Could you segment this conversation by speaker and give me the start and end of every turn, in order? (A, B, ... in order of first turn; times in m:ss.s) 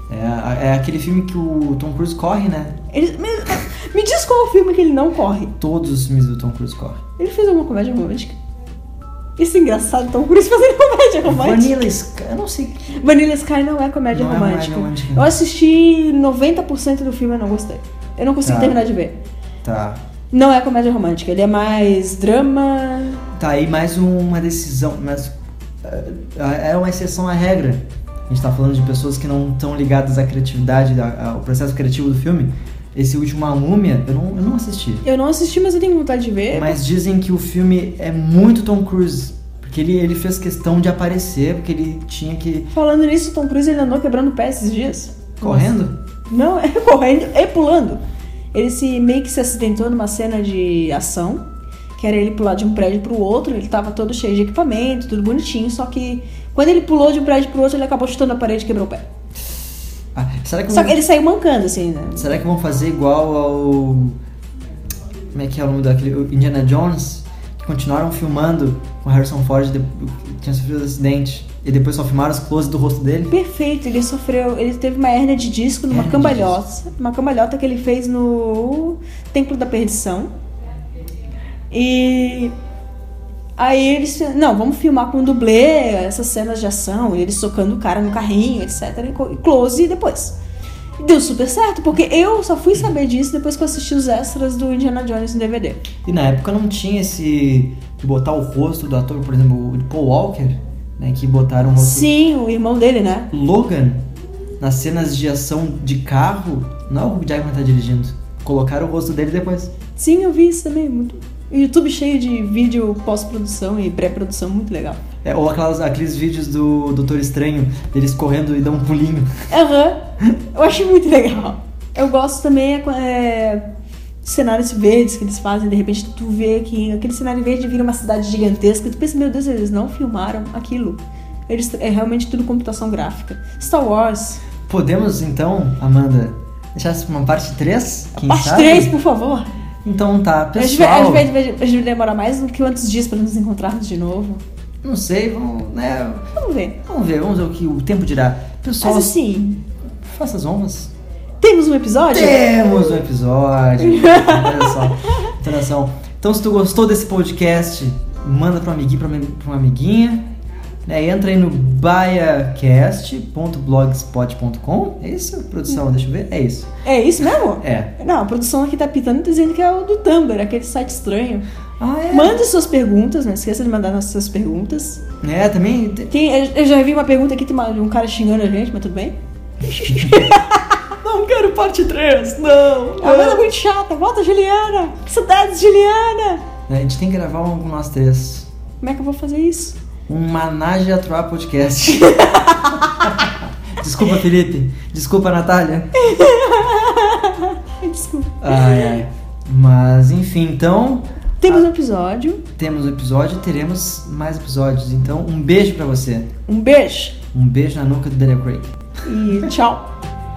0:00.1-0:02.9 A
0:02.9-0:05.5 B
0:05.6-0:07.0 A
0:07.2-0:08.4 B
0:09.4-0:11.8 B
0:11.2-0:12.9 A
0:12.9-0:19.2 B
0:14.1-0:15.3 A
0:18.4-0:18.8 A
0:19.6-0:20.0 A
0:20.3-0:23.2 B
0:23.3-0:35.0 A
0:35.0-0:36.8 B
0:36.5-0:42.7 A
0:42.7-0:45.7 B
0:45.4-0:46.0 A
0:46.3-0:48.0 B
0:48.5-0:51.4 B
0:52.0-0:59.1 B
1:00.2-1:01.0 A
1:00.7-1:02.3 B
1:02.2-1:04.2 A
1:05.3-1:13.4 A
1:13.3-1:20.3 B
1:15.9-1:16.6 A
1:21.7-1:22.5 B
1:23.6-1:30.4 B
1:31.0-1:35.9 B
1:36.0-1:42.1 A
1:41.8-1:43.3 B
1:43.3-1:44.0 A
1:44.6-1:49.7 A
1:50.0-1:55.0 B
1:55.2-1:59.4 A
1:59.5-2:03.7 B
2:04.2-2:14.4 B
2:14.7-2:19.0 A
2:18.2-2:19.5 B
2:19.8-2:21.3 A
2:20.6-2:24.4 B
2:24.8-2:29.2 A
2:26.4-2:26.8 B
2:28.8-2:29.6 B
2:30.0-2:30.9 A
2:31.4-2:33.0 B
2:32.1-2:40.2 A
2:33.8-2:34.9 B
2:40.9-2:46.7 A
2:46.8-2:51.5 B
2:47.6-2:47.9 A
2:51.8-2:52.4 A
2:52.1-2:55.0 B
2:55.2-2:56.1 A
2:56.1-3:06.5 B
3:02.8-3:03.5 A
3:06.7-3:08.5 A
3:08.8-3:09.8 B
3:10.1-3:12.2 A
3:12.0-3:13.2 B
3:12.8-3:15.9 A
3:16.0-3:19.0 B
3:18.4-3:21.7 A
3:21.4-3:22.4 B
3:22.6-3:26.3 A
3:26.5-3:27.2 B
3:27.3-3:28.8 A
3:29.0-3:30.0 B